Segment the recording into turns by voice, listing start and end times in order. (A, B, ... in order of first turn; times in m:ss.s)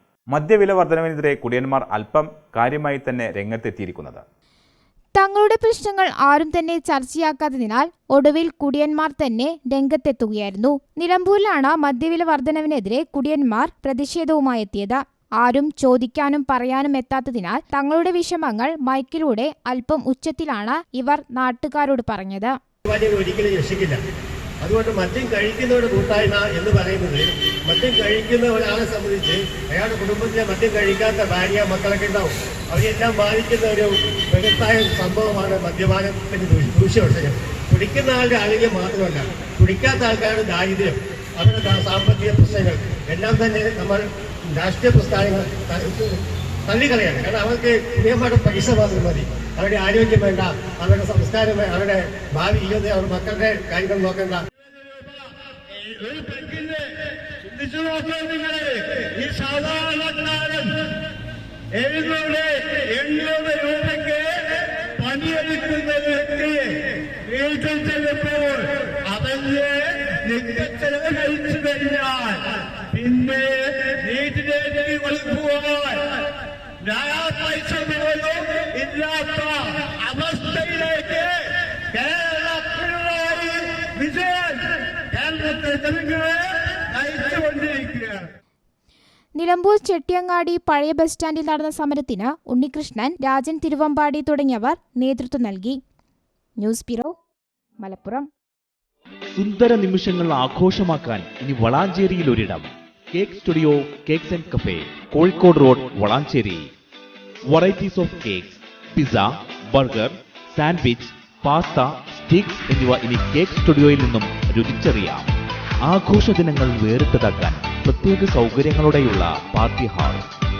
0:00.3-0:04.2 A
0:05.2-0:22.6 B
0:22.9-0:24.0 C
0:24.6-0:54.4 C
0:54.8-1:01.0 D
1:01.7-1:16.3 D
1:16.8-1:28.3 D
1:29.4-1:35.8 B
1:36.6-1:37.1 B
1:37.8-1:38.3 B
1:39.3-1:46.7 E
1:47.5-1:55.3 E
1:55.9-2:00.2 E